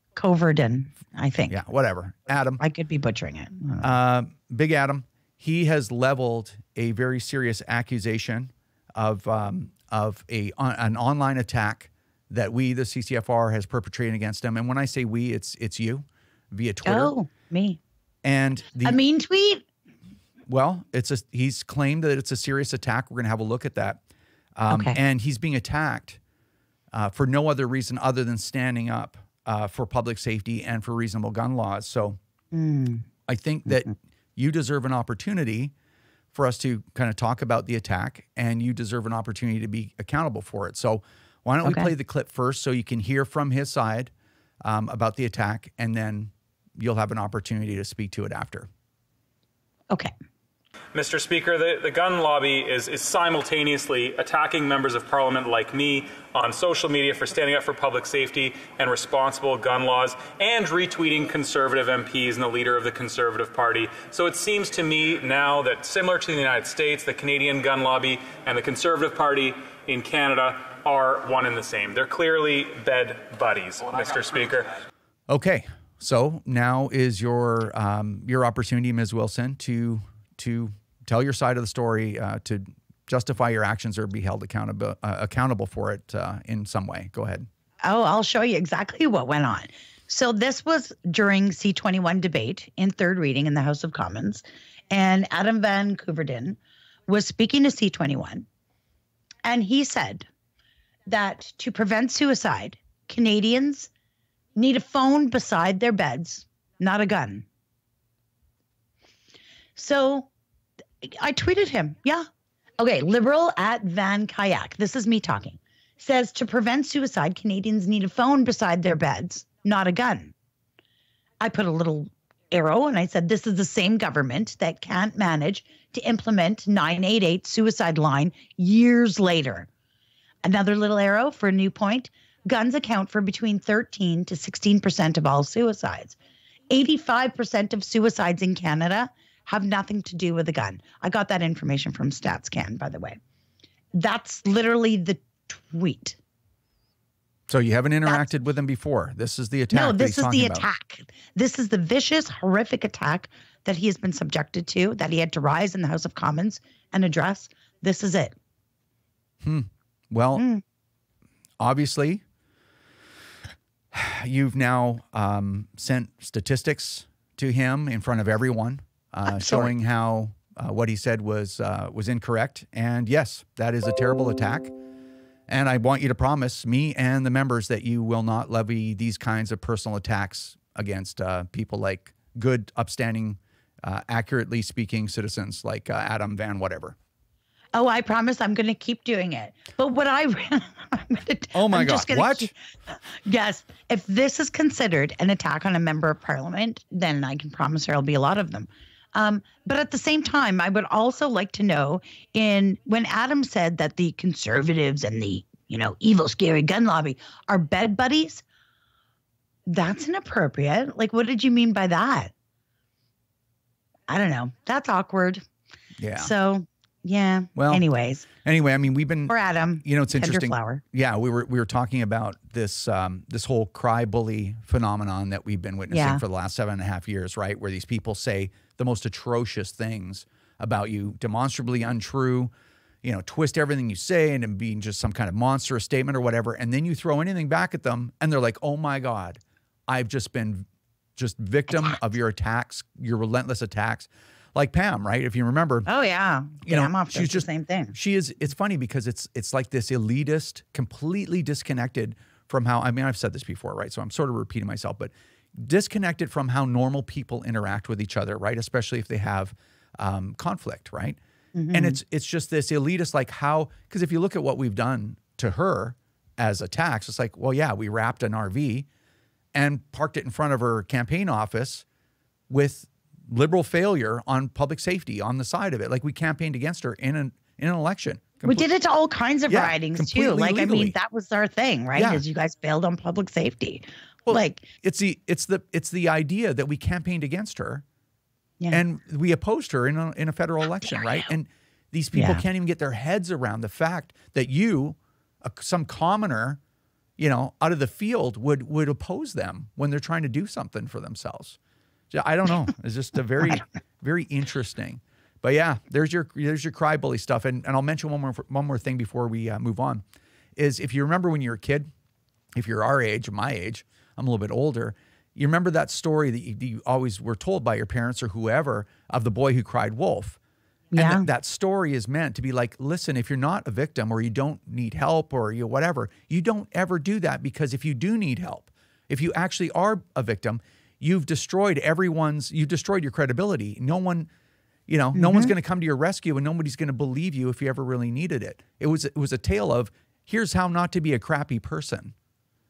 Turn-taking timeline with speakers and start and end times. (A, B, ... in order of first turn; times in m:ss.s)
0:00.2-0:01.6 A
0:01.5-0:02.6 B
0:02.6-0:03.9 A
0:03.8-0:17.1 B
0:16.8-0:17.8 A
0:18.2-0:19.0 B
0:18.8-0:19.7 A
0:20.5-0:24.0 B
0:24.6-0:26.2 B
0:24.7-0:25.0 A
0:26.9-0:32.2 B
0:32.5-0:33.1 A
0:33.3-0:35.7 B
0:36.3-0:44.1 B
0:41.6-0:41.9 A
0:44.6-0:48.7 B
0:50.9-1:14.7 C
1:15.3-1:27.5 B
1:27.8-1:38.5 A
1:39.4-1:40.3 A
1:41.1-1:43.9 A
1:44.6-1:47.4 A
1:49.8-1:50.3 A
1:51.0-1:52.3 A
1:52.8-2:00.3 A
2:01.4-2:09.7 A
2:10.4-2:16.2 A
2:16.7-2:23.2 A
2:23.9-2:26.2 A
2:27.5-2:30.7 B
2:29.7-2:38.4 A
2:39.4-2:40.4 B
2:40.4-2:40.6 A
2:41.6-2:42.2 B
2:43.9-2:54.7 B
2:49.3-2:49.7 A
2:55.5-3:07.0 B
3:07.7-3:12.5 A
3:11.5-3:12.5 B
3:13.2-3:28.4 A
3:29.7-3:32.3 A
3:34.1-3:35.4 A
3:36.0-3:36.3 B
3:36.2-3:38.3 A
3:37.6-4:05.9 B
3:39.3-3:40.8 A
3:45.9-3:46.2 A
4:05.9-4:08.0 A
4:06.6-4:21.2 B
4:21.6-4:22.0 A
4:21.7-4:28.9 B
4:29.5-4:31.8 B
4:32.5-4:38.7 B
4:38.4-4:44.7 A
4:39.5-4:41.0 B
4:42.0-4:42.2 B
4:44.3-4:47.8 B
4:48.7-4:56.6 B
4:52.2-4:52.4 A
4:57.2-5:01.6 B
5:02.1-5:10.0 B
5:10.6-5:11.9 B
5:12.6-5:20.4 B
5:20.9-5:21.3 A
5:21.0-5:34.3 B
5:34.9-5:42.2 B
5:35.2-5:35.5 A